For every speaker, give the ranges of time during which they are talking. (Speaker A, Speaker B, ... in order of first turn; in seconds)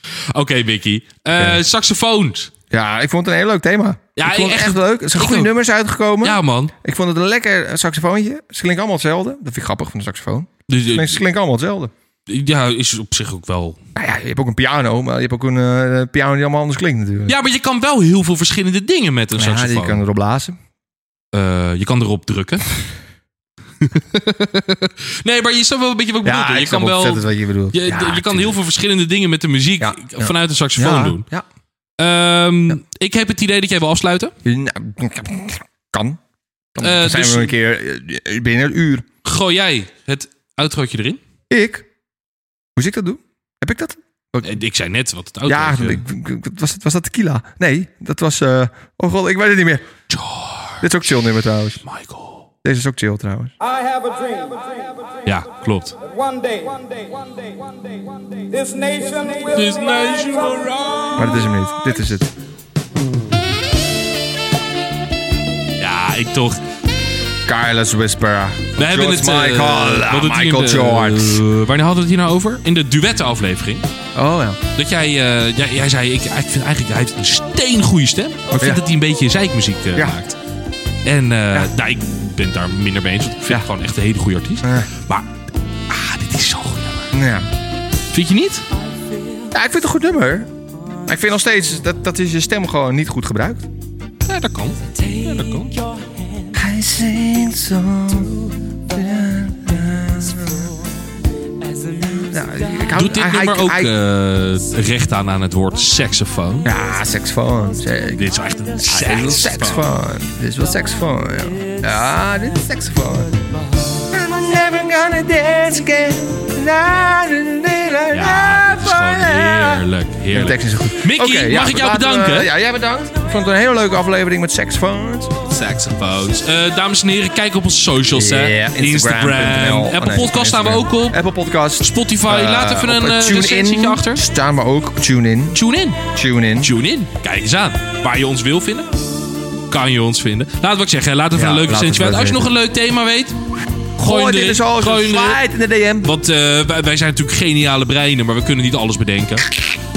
Speaker A: 0.3-2.5, 4.2-5.5, 6.2-6.7, 10.7-11.2, 12.3-13.8, 17.3-20.0, 21.3-22.8, 23.8-31.3, 32.0-34.4, 36.8-37.5, 39.2-41.2, 44.4-46.0, 50.1-50.9, 51.8-52.5, 55.3-56.0, 59.5-61.2, 65.8-66.6, 68.8-73.9, 74.7-80.4, 81.0-85.3, 85.9-87.2, 88.1-88.7, 94.3-95.8, 102.9-106.7, 108.2-109.9, 118.1-122.5, 125.5-131.2, 131.8-134.2, 135.5-136.0, 136.6-138.9, 139.7-143.4, 144.0-145.4, 146.0-149.6
Speaker B: 2.7-11.9, 14.0-17.4, 19.4-20.6, 26.2-28.6, 29.8-31.5, 34.5-36.2, 36.7-39.1, 41.5-41.9, 42.8-44.6, 45.5-49.9, 50.8-51.8, 52.6-53.5, 61.1-62.3, 67.5-71.4, 74.2-74.6, 78.5-78.8, 84.6-84.9, 87.1-87.5, 89.5-90.5, 91.1-93.7, 96.5-100.8, 102.1-103.9, 106.7-113.3, 114.1-125.3, 128.1-135.6, 136.1-136.7, 141.3-142.5, 144.0-146.1
Speaker C: 53.7-55.0, 56.1-57.5, 58.5-59.6